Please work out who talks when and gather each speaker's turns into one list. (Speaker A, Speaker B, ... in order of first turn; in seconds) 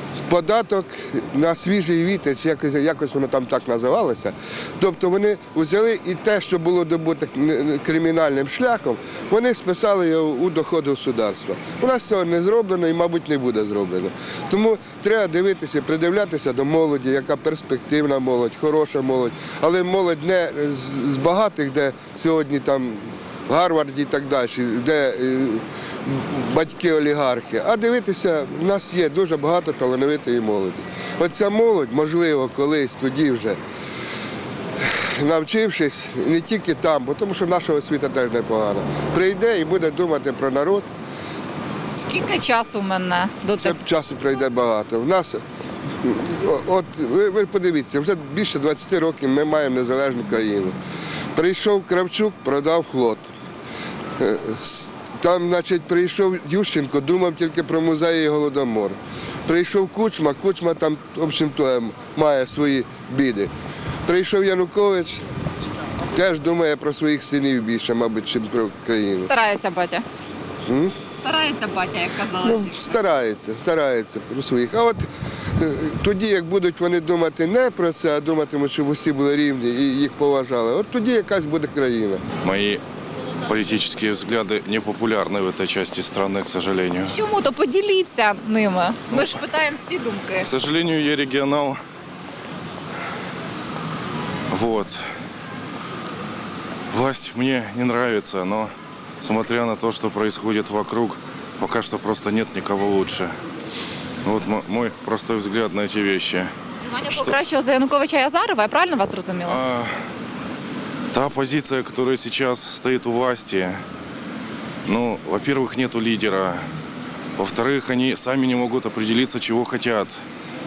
Speaker A: 0.3-33.6, 34.8-40.9, 43.6-45.4, 46.0-50.8, 51.4-53.3, 54.2-63.5, 64.1-65.2, 66.1-69.3, 70.7-70.9, 72.4-82.2
Speaker B: 42.0-43.7, 69.3-70.0, 71.2-72.5, 87.1-90.5, 107.0-109.5
Speaker C: 82.4-82.8, 83.5-87.2, 89.1-89.4, 90.4-91.8, 94.5-95.0, 96.9-103.3, 104.2-106.5, 107.1-107.4, 109.5-110.0, 111.1-113.8, 114.9-116.6, 117.4-120.2